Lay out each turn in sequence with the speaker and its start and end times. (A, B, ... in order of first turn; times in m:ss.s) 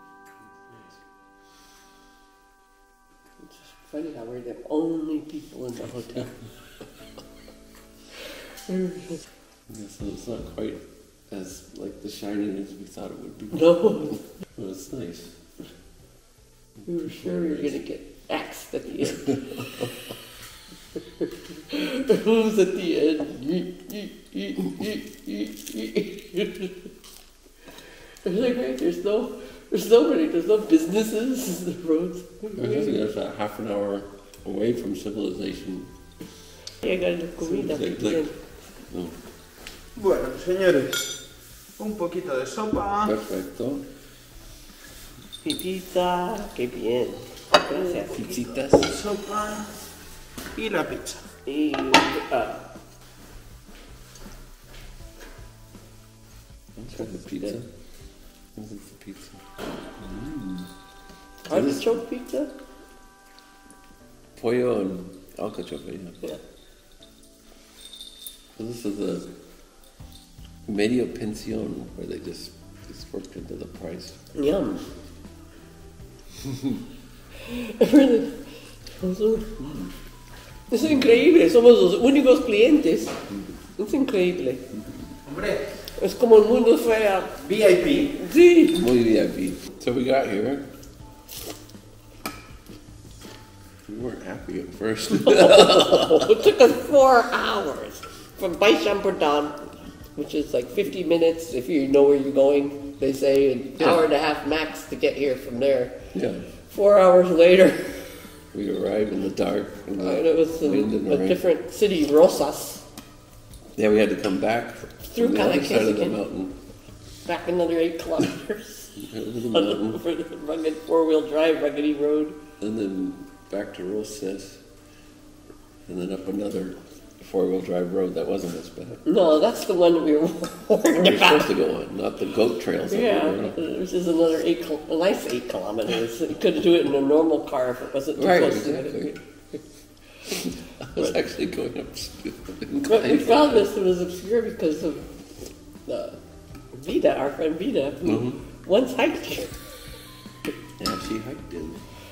0:00.4-0:01.0 A
0:03.4-0:06.4 B
0:08.2-0:09.2 B
0:09.7-0:15.4 A
0:13.5-0:14.2 B
0:16.8-0:20.2 B
0:17.1-0:17.7 A
0:19.2-0:19.8 A
0:20.9-0:26.9 B
0:27.8-0:33.0 B
0:32.5-0:35.9 A
0:36.7-0:38.4 B
0:37.4-0:39.2 A
0:39.9-0:41.2 C
0:41.8-0:43.1 C
0:43.0-0:43.9 A
0:45.4-0:48.4 B
0:47.7-0:49.0 A
0:48.9-0:49.8 C
0:50.5-0:51.2 C
0:51.4-0:52.7 B
0:56.8-0:57.7 A
0:58.5-0:59.4 A
1:00.0-1:00.7 A
1:01.4-1:02.5 B
1:01.5-1:02.0 A
1:04.4-1:06.2 A
1:08.6-1:09.3 A
1:10.6-1:14.2 A
1:14.3-1:14.9 B
1:17.4-1:19.7 B
1:19.6-1:19.9 A
1:20.7-1:23.2 B
1:20.8-1:21.2 A
1:23.7-1:24.6 B
1:25.2-1:25.6 C
1:25.9-1:27.4 B
1:27.4-1:28.2 C
1:28.1-1:28.8 B
1:28.5-1:30.7 A
1:33.8-1:36.6 A
1:35.2-1:46.0 B
1:43.8-1:44.0 A
1:46.1-1:46.5 A
1:46.6-1:48.3 B
1:48.5-1:51.4 A
1:50.0-1:52.9 B
1:53.7-1:56.6 A
1:55.0-1:56.2 B
1:57.2-2:02.4 B
1:59.0-2:00.0 A
2:02.6-2:04.6 A
2:05.8-2:09.0 A
2:09.0-2:11.5 B
2:10.9-2:13.6 A
2:12.9-2:19.6 B
2:18.2-2:19.2 A
2:20.3-2:23.7 A
2:22.9-2:26.2 B
2:26.7-2:29.6 B
2:28.0-2:28.4 A
2:30.8-2:31.8 A